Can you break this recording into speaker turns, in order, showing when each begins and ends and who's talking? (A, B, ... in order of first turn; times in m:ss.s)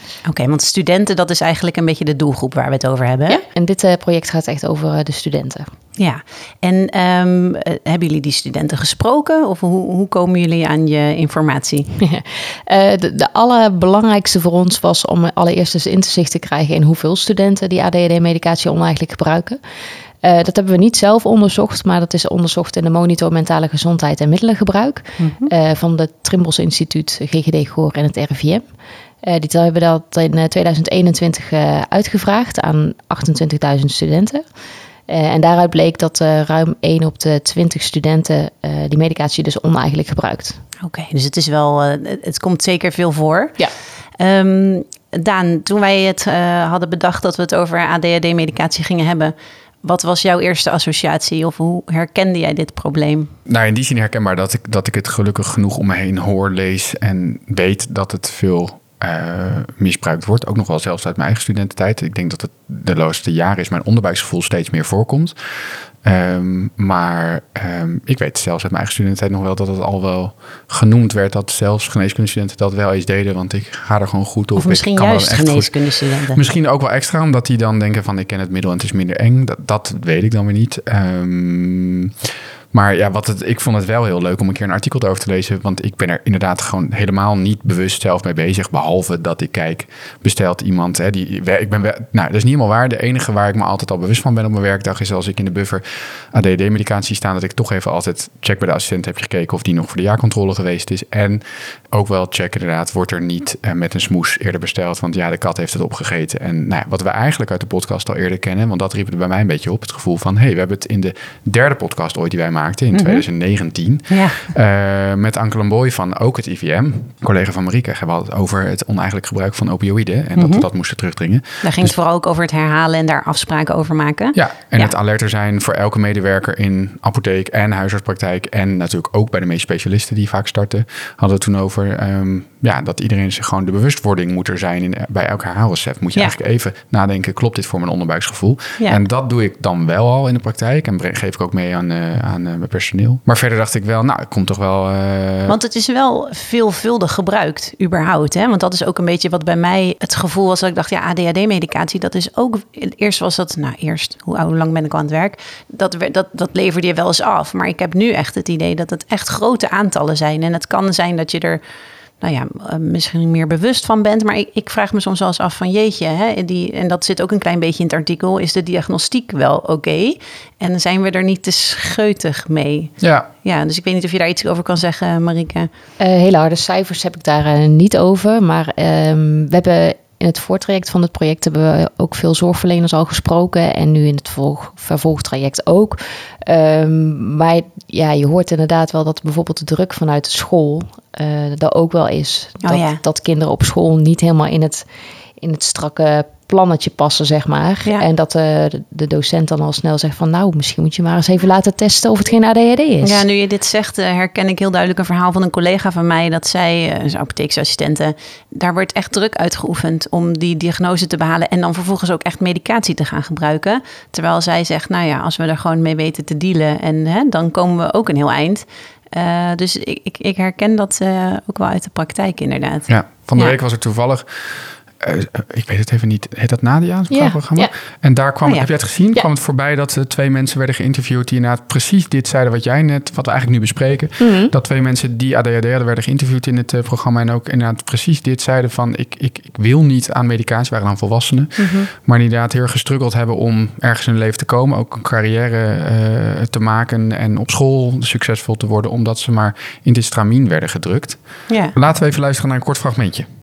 0:00.2-0:03.4 A
0:03.3-0:05.7 B
0:06.0-0:11.9 A
0:12.0-0:19.6 B
0:20.2-0:28.6 B
0:25.2-0:25.5 A
0:29.2-0:34.4 B
0:35.1-0:40.6 B
0:40.8-0:43.6 A
0:44.2-0:53.3 A
0:53.5-1:05.4 C
1:06.0-1:15.7 C
1:14.6-1:16.4 A
1:16.3-1:22.1 C
1:22.7-2:01.9 C
1:52.9-1:53.2 A
1:54.1-1:54.5 A
2:00.4-2:00.6 A
2:01.6-2:04.9 A
2:04.3-2:25.6 C
2:25.5-2:41.6 A
2:42.2-2:55.7 A
2:53.0-2:53.3 C
2:56.0-3:14.8 B
3:12.6-3:13.0 A
3:15.4-3:23.2 B
3:23.0-3:43.6 A
3:42.9-4:11.2 C
3:47.1-3:47.7 B
3:54.2-3:54.5 B
4:01.6-4:01.9 B
4:11.5-4:11.7 A
4:11.7-4:13.2 C